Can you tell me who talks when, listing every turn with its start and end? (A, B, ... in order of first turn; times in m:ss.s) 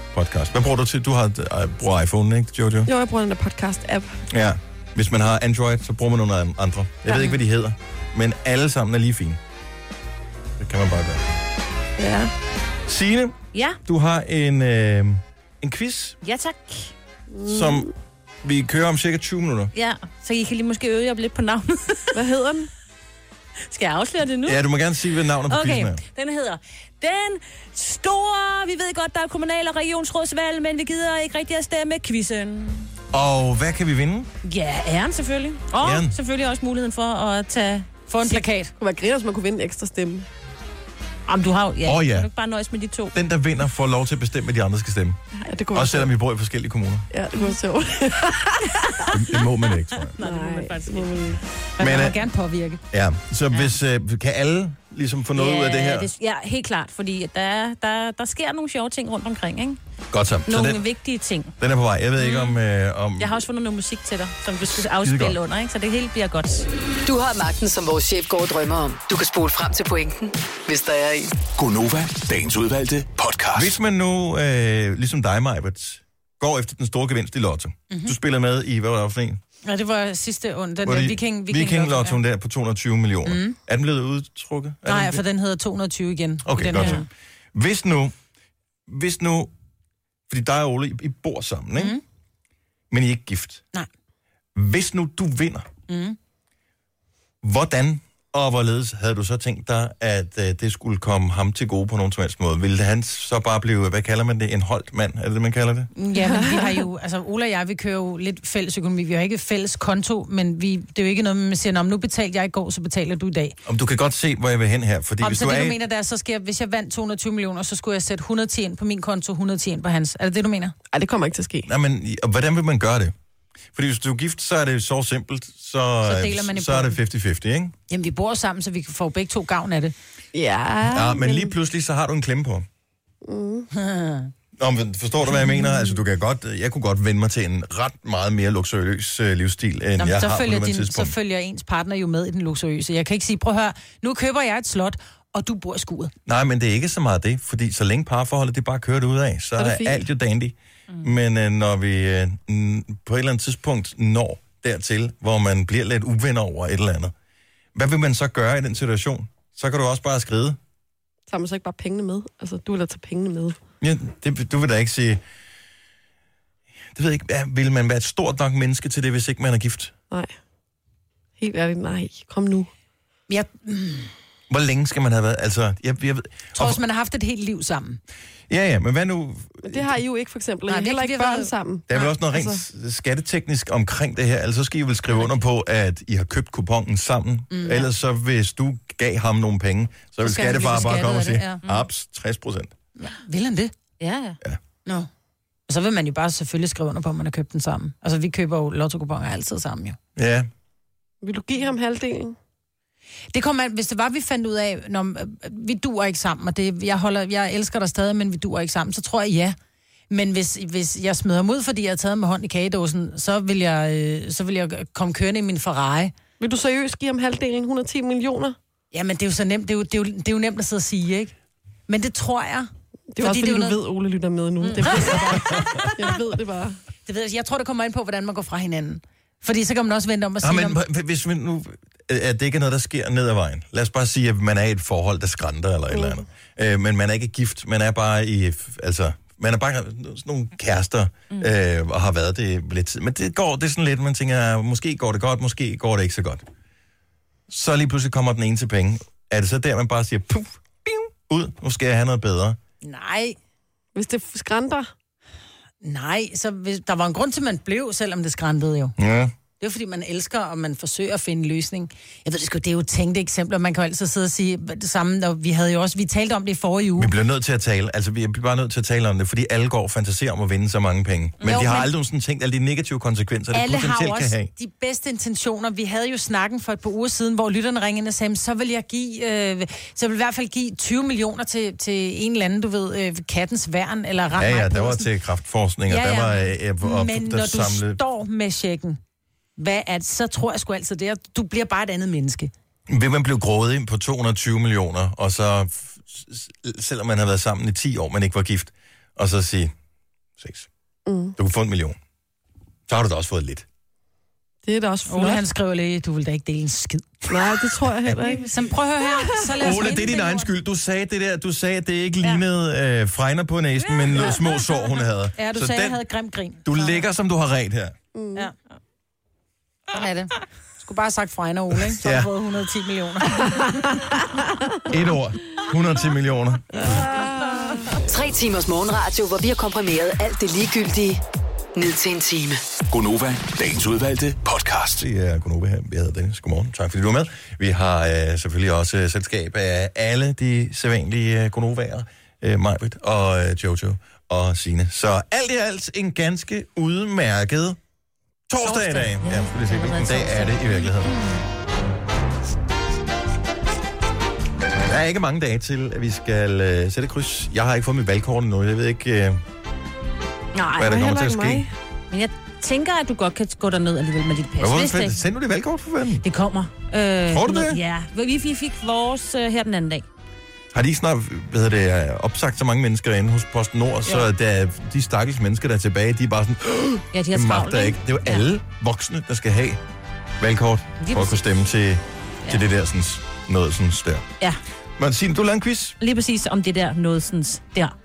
0:00.1-0:02.9 A
0:02.9-0:04.2 B
0:04.3-0:09.4 A
0:10.6-0:11.2 A
0:12.0-0:12.3 B
0:12.9-0:16.2 A
0:13.5-0:13.8 C
0:16.2-0:16.9 C
0:17.3-0:17.9 B
0:17.4-0:17.9 A
0:18.4-0:19.7 A
0:19.8-0:22.3 C
0:22.1-0:22.7 B
0:23.7-0:24.6 C
0:24.4-0:26.0 A
0:25.5-0:32.9 C
0:33.1-0:34.3 A
0:34.4-0:38.4 C
0:35.8-0:36.1 A
0:38.1-0:38.7 D
0:38.8-0:40.3 B
0:41.3-0:43.2 C
0:41.8-0:42.3 A
0:43.1-0:45.2 A
0:45.5-0:46.1 B
0:45.7-0:47.1 A
0:47.1-0:49.4 B
0:49.1-0:50.2 A
0:50.1-0:51.4 C
0:50.2-0:51.4 B
0:51.8-0:52.8 D
0:51.8-0:52.2 A
0:52.9-0:56.1 A
0:55.4-0:59.8 C
1:00.1-1:00.8 A
1:00.4-1:01.5 C
1:01.6-1:03.4 A
1:02.2-1:02.6 C
1:03.2-1:06.7 C
1:04.7-1:05.4 A
1:07.0-1:11.3 E
1:11.6-1:13.8 F
1:13.6-1:19.4 A
1:17.9-1:18.1 D
1:19.6-1:22.2 D
1:20.8-1:25.2 A
1:23.3-1:23.6 D
1:24.9-1:27.0 D
1:26.4-1:28.1 A
1:28.9-1:29.5 A
1:30.3-1:32.0 A
1:32.9-1:33.6 A
1:34.6-1:35.7 A
1:35.9-1:36.2 D
1:37.4-1:45.9 A
1:46.0-1:53.6 D
1:46.2-1:46.8 B
1:53.7-1:55.8 A
1:55.2-2:00.8 D
2:00.9-2:01.7 B
2:01.7-2:03.1 A
2:03.7-2:07.7 A
2:06.0-2:07.0 D
2:07.9-2:09.9 D
2:10.3-2:11.5 B
2:10.9-2:12.7 A
2:13.2-2:13.7 B
2:13.7-2:14.3 D
2:14.6-2:21.1 A
2:20.0-2:26.1 D
2:26.3-2:37.1 A
2:29.6-2:30.0 B
2:37.8-2:40.6 A
2:41.3-2:43.6 B
2:43.8-2:45.2 A
2:47.0-2:49.9 A
2:51.4-2:52.7 B
2:53.3-2:54.1 D
2:54.5-2:56.8 A
2:56.6-2:58.0 D
2:58.5-3:00.0 A
2:59.6-3:02.6 B
3:00.7-3:01.5 D
3:01.9-3:12.7 A
3:07.5-3:07.9 D
3:10.2-3:11.6 D
3:13.0-3:13.7 D
3:14.0-3:14.4 C
3:15.7-3:20.0 D
3:20.2-3:20.5 A
3:21.2-3:22.4 B
3:23.3-3:29.6 D
3:30.1-3:36.1 D
3:36.4-3:38.6 B
3:38.9-3:41.3 D
3:41.9-3:43.8 D
3:43.1-3:46.8 B
3:44.6-3:46.0 D
3:47.1-3:50.8 D
3:50.4-4:06.4 A
3:55.9-3:56.2 B
4:07.5-4:12.6 A
4:12.8-4:13.4 D
4:14.0-4:14.9 B
4:15.8-4:18.9 D
4:19.0-4:19.3 A
4:19.6-4:27.1 D
4:27.0-4:34.5 A
4:31.4-4:31.7 C
4:31.4-4:31.9 D
4:33.5-4:45.1 D
4:44.4-4:48.0 A
4:45.9-4:49.0 D
4:49.6-4:52.5 D
4:52.9-4:59.7 A
5:00.4-5:00.7 A
5:01.1-5:01.4 B
5:01.4-5:02.0 A
5:02.9-5:03.7 A
5:04.6-5:05.4 B
5:05.1-5:07.2 D
5:07.3-5:08.5 B
5:08.0-5:08.4 A
5:08.4-5:10.5 D
5:09.6-5:16.0 A
5:15.4-5:17.0 D
5:16.6-5:18.0 A
5:18.1-5:18.5 B
5:19.9-5:23.8 D
5:21.9-5:22.3 A
5:24.9-5:26.8 A
5:26.8-5:28.0 B
5:28.1-5:31.2 E
5:31.8-5:32.6 E
5:32.9-5:35.0 F
5:35.0-5:47.8 A
5:48.5-5:51.1 A
5:48.6-5:50.9 C
5:54.7-5:59.4 A
6:00.6-6:01.1 C
6:00.8-6:01.7 A
6:00.9-6:01.7 B
6:02.1-6:05.2 C
6:04.6-6:06.2 A
6:06.2-6:10.1 C
6:07.3-6:07.8 A
6:10.7-6:19.8 A
6:17.1-6:18.4 C
6:20.4-6:24.3 A
6:21.1-6:21.4 C
6:25.0-6:26.0 A
6:26.0-6:28.0 C